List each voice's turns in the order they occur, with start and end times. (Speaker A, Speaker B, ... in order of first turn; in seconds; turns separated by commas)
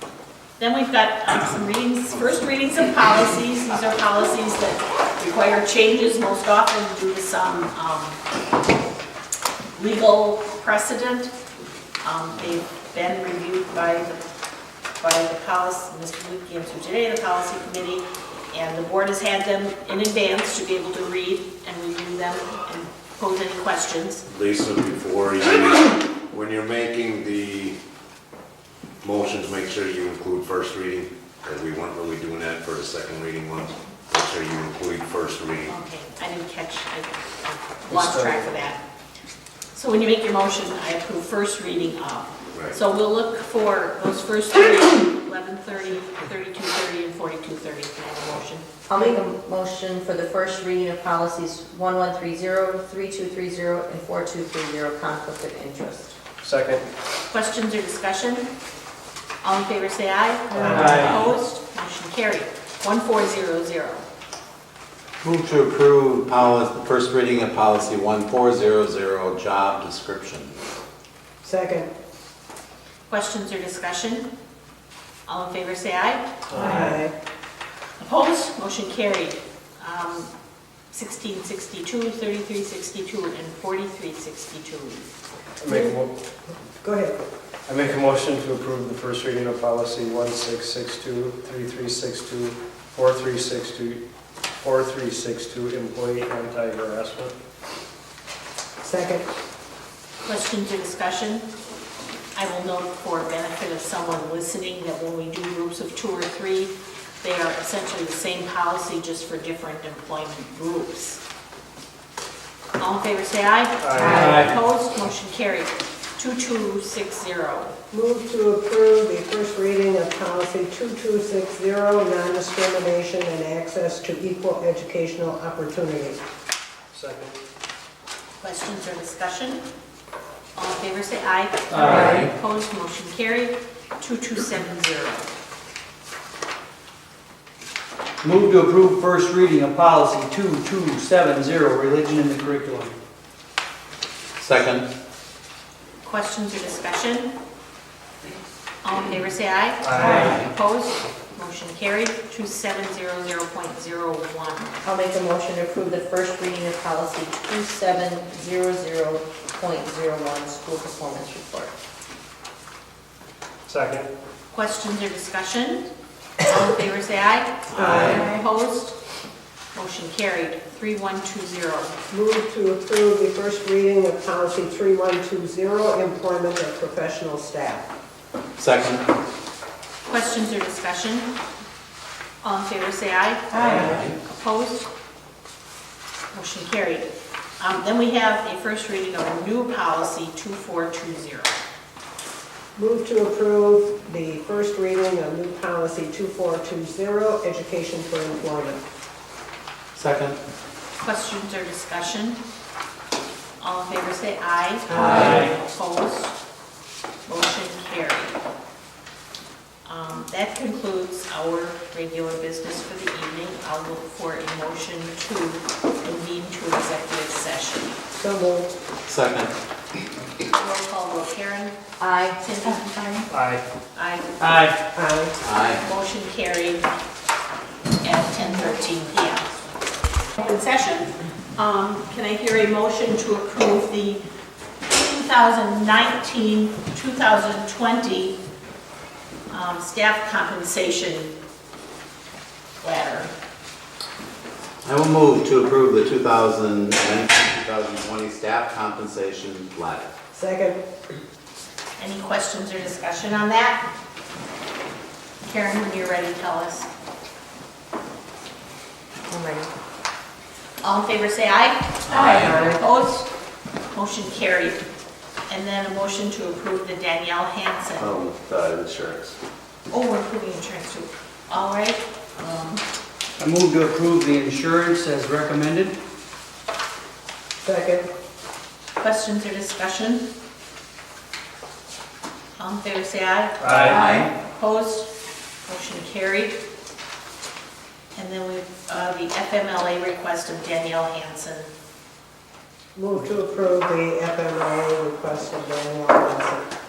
Speaker A: 0.6-8.2, Speaker A: 9.8-11.3, Speaker A: 12.0-14.2, Speaker A: 15.0-24.2, Speaker B: 24.3-27.8, Speaker B: 29.0-35.8, Speaker A: 35.6-38.8, Speaker C: 37.9-38.4, Speaker A: 39.7-48.7, Speaker D: 48.9-56.2, Speaker C: 56.4-56.9, Speaker A: 57.3-58.5, Speaker A: 59.4-64.0, Speaker C: 60.5-61.1, Speaker E: 60.6-61.0, Speaker F: 60.9-61.2, Speaker F: 65.2-70.5, Speaker E: 71.4-71.9, Speaker A: 73.1-74.3, Speaker A: 75.3-76.3, Speaker C: 76.5-77.0, Speaker E: 76.5-77.1, Speaker A: 78.0-80.3, Speaker A: 80.9-85.1, Speaker C: 85.6-86.1, Speaker E: 85.7-85.9, Speaker E: 86.5-87.2, Speaker C: 87.7-94.0, Speaker C: 94.6-97.3, Speaker E: 98.8-99.3, Speaker A: 100.2-101.5, Speaker A: 102.3-111.2, Speaker A: 112.8-117.7, Speaker C: 113.8-114.5, Speaker D: 114.0-114.4, Speaker G: 114.1-114.5, Speaker E: 117.9-126.2, Speaker C: 126.9-127.4, Speaker A: 128.4-129.6, Speaker A: 130.6-135.3, Speaker G: 131.7-132.1, Speaker D: 131.8-132.2, Speaker F: 132.0-132.3, Speaker G: 138.2-142.9, Speaker F: 144.4-144.9, Speaker A: 146.0-147.3, Speaker A: 148.8-154.7, Speaker C: 149.8-150.4, Speaker D: 154.8-161.7, Speaker C: 163.7-164.1, Speaker A: 164.5-165.9, Speaker A: 166.4-169.0, Speaker F: 167.7-168.3, Speaker E: 167.8-168.2, Speaker A: 169.8-171.9, Speaker E: 172.1-177.9, Speaker F: 178.6-179.0, Speaker A: 180.1-181.3, Speaker A: 182.4-184.9, Speaker F: 183.6-184.2, Speaker E: 183.6-184.0, Speaker A: 186.3-191.6, Speaker E: 192.8-198.8, Speaker F: 199.9-200.4, Speaker A: 201.0-202.4, Speaker A: 203.6-206.3, Speaker F: 204.9-205.5, Speaker E: 204.9-205.5, Speaker A: 207.3-208.4, Speaker A: 209.8-217.9, Speaker E: 218.1-218.7, Speaker F: 219.1-219.5, Speaker A: 220.5-221.8, Speaker D: 222.0-223.2, Speaker A: 222.4-223.1, Speaker C: 223.3-223.6, Speaker A: 223.9-224.3, Speaker G: 224.4-224.8, Speaker E: 224.9-225.4, Speaker F: 225.4-225.8, Speaker A: 225.8-226.8, Speaker A: 228.0-229.6, Speaker A: 230.4-234.2, Speaker A: 234.9-238.4, Speaker A: 239.5-241.3, Speaker A: 242.8-243.3, Speaker F: 244.8-250.1, Speaker E: 250.3-250.8, Speaker A: 252.0-253.9, Speaker A: 255.4-256.9, Speaker D: 259.3-259.7, Speaker A: 260.8-263.3, Speaker D: 262.1-262.8, Speaker F: 262.1-262.5, Speaker A: 263.9-264.8, Speaker A: 265.5-268.2, Speaker A: 269.9-272.8, Speaker G: 273.4-276.0, Speaker E: 277.6-278.1, Speaker A: 279.0-280.3, Speaker A: 282.6-285.1, Speaker C: 283.6-284.0, Speaker F: 283.9-284.3, Speaker A: 285.7-286.6, Speaker A: 288.1-291.7, Speaker E: 292.9-296.7